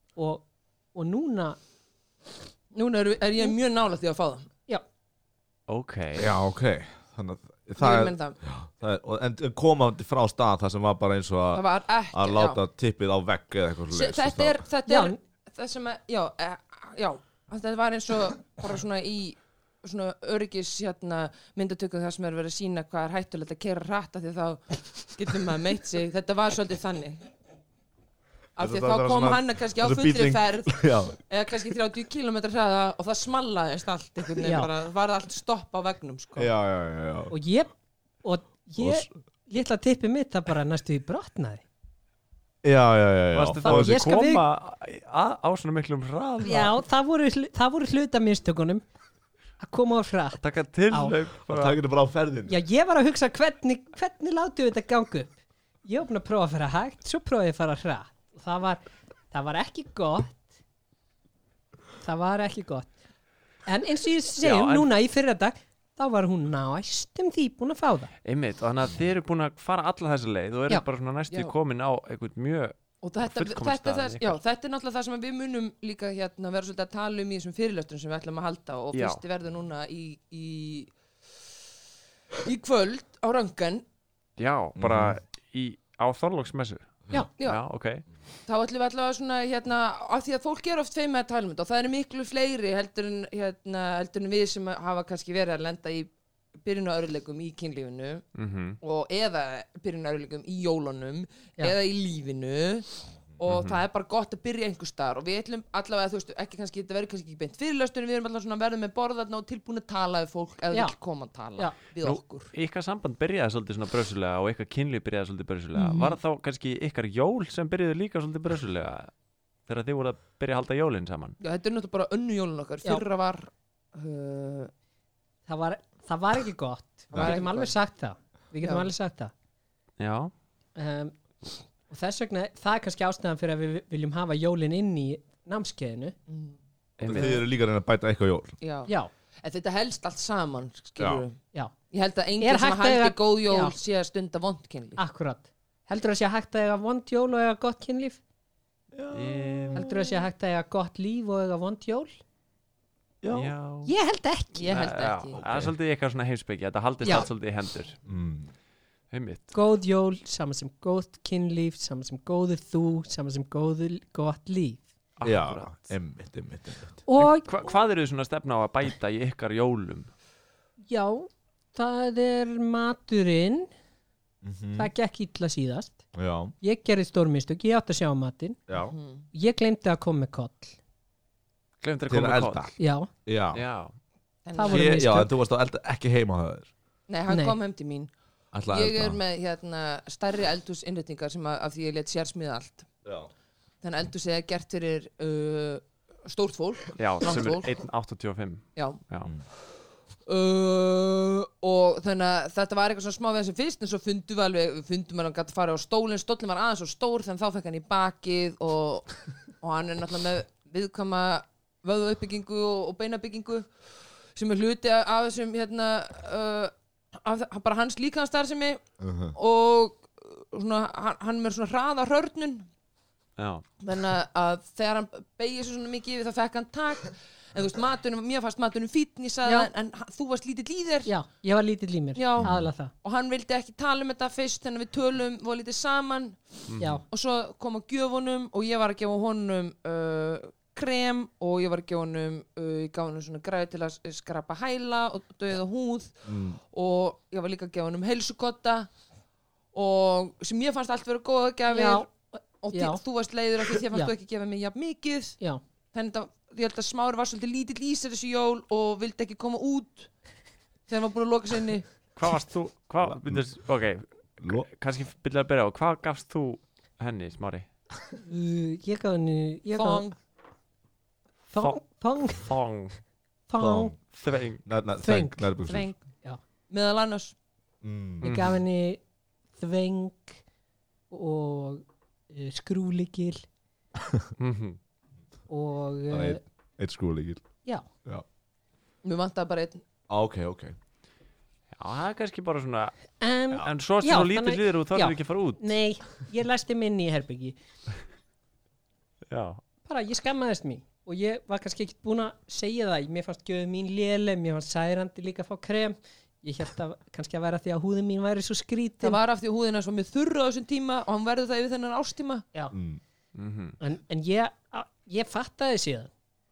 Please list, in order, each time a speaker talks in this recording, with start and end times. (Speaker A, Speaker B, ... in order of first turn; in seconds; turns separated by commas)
Speaker A: 0.2-1.6, Speaker B: 2.7-4.5, Speaker C: 5.7-6.3, Speaker D: 6.2-14.6, Speaker B: 7.8-8.4, Speaker B: 11.5-12.6, Speaker B: 13.9-27.3, Speaker A: 14.9-15.2, Speaker B: 28.6-36.5, Speaker D: 28.6-31.2, Speaker A: 34.4-34.7, Speaker D: 36.4-37.4, Speaker A: 37.3-37.7, Speaker A: 38.2-41.6, Speaker D: 38.8-39.1, Speaker D: 42.6-44.0, Speaker C: 43.3-46.8, Speaker A: 43.6-44.4, Speaker A: 46.4-48.8, Speaker A: 49.6-50.4, Speaker C: 50.4-51.8, Speaker D: 51.5-52.6, Speaker A: 52.5-60.5, Speaker A: 62.0-62.9, Speaker A: 63.7-68.1, Speaker C: 64.4-64.9, Speaker C: 68.2-74.4, Speaker B: 73.0-80.9, Speaker C: 78.9-79.2, Speaker B: 82.4-83.8, Speaker C: 84.4-88.0, Speaker D: 84.8-85.2, Speaker B: 88.5-98.2, Speaker C: 98.3-98.8, Speaker B: 98.8-112.5, Speaker C: 103.5-103.8, Speaker C: 112.0-119.1, Speaker B: 115.8-116.2, Speaker C: 119.7-121.4, Speaker B: 121.4-124.7, Speaker A: 125.5-129.3, Speaker B: 127.1-127.8, Speaker D: 127.1-127.4, Speaker B: 128.6-128.9, Speaker C: 130.0-130.3, Speaker A: 130.8-131.1, Speaker A: 131.9-136.1, Speaker B: 136.3-136.6, Speaker C: 137.0-137.4, Speaker D: 137.0-138.6, Speaker B: 138.6-141.4, Speaker D: 141.0-141.2, Speaker B: 141.9-145.0, Speaker A: 142.4-143.7, Speaker A: 145.0-148.2, Speaker D: 148.9-149.8, Speaker C: 149.1-149.8, Speaker B: 149.8-150.3, Speaker A: 149.8-152.2, Speaker D: 153.2-153.5, Speaker C: 153.3-153.9, Speaker A: 153.9-154.8, Speaker B: 154.5-155.4, Speaker C: 154.7-158.0, Speaker D: 155.4-155.7, Speaker D: 158.1-158.5, Speaker C: 159.1-159.5, Speaker A: 159.5-164.9, Speaker C: 165.2-165.9, Speaker D: 165.2-167.0, Speaker A: 167.1-167.5, Speaker C: 167.2-170.1, Speaker A: 170.9-173.7, Speaker D: 174.4-174.9, Speaker A: 174.8-176.0, Speaker D: 176.2-176.5, Speaker A: 176.6-178.6, Speaker D: 178.7-178.9, Speaker B: 178.8-179.3, Speaker A: 179.3-180.8, Speaker C: 181.8-182.8, Speaker D: 182.1-182.7, Speaker A: 182.8-183.1, Speaker D: 183.3-183.6, Speaker C: 183.5-183.9, Speaker B: 184.5-185.0, Speaker A: 184.5-185.3, Speaker D: 184.7-186.7, Speaker B: 187.1-188.1, Speaker A: 187.3-187.6, Speaker D: 188.5-189.2, Speaker B: 188.7-192.9, Speaker D: 193.1-193.3, Speaker B: 193.8-197.7, Speaker C: 197.0-199.3, Speaker B: 198.8-199.0, Speaker B: 200.3-213.7, Speaker B: 214.3-216.7, Speaker B: 217.2-222.7, Speaker D: 219.0-219.3, Speaker C: 223.4-223.7, Speaker B: 223.8-231.1, Speaker A: 231.1-232.9, Speaker B: 232.2-248.9, Speaker D: 232.4-232.7, Speaker C: 236.7-236.9, Speaker D: 246.3-246.6, Speaker B: 249.7-252.1, Speaker A: 251.7-253.0, Speaker B: 252.6-255.4, Speaker A: 253.8-254.1, Speaker B: 255.9-260.1, Speaker B: 260.9-261.9, Speaker C: 262.2-267.7, Speaker D: 263.0-263.6, Speaker D: 264.4-264.7, Speaker A: 268.2-270.1, Speaker B: 269.7-270.1, Speaker A: 271.5-272.5, Speaker C: 272.3-273.0, Speaker A: 273.5-273.9, Speaker D: 273.6-274.0, Speaker C: 274.1-274.6, Speaker D: 274.6-275.9, Speaker A: 275.0-275.5, Speaker B: 275.7-276.0, Speaker B: 276.7-277.4, Speaker D: 277.8-278.4, Speaker C: 278.2-278.6, Speaker A: 278.2-279.0, Speaker A: 279.6-280.4, Speaker A: 281.1-283.4, Speaker C: 284.4-284.8, Speaker A: 285.5-286.4, Speaker D: 286.1-287.4, Speaker B: 289.0-289.8, Speaker D: 290.1-290.8, Speaker C: 291.8-292.9, Speaker A: 293.2-297.6, Speaker C: 293.5-295.8, Speaker C: 299.3-299.6, Speaker A: 299.9-309.2, Speaker B: 309.0-312.4, Speaker D: 312.7-313.0, Speaker C: 313.4-313.8, Speaker A: 313.8-316.1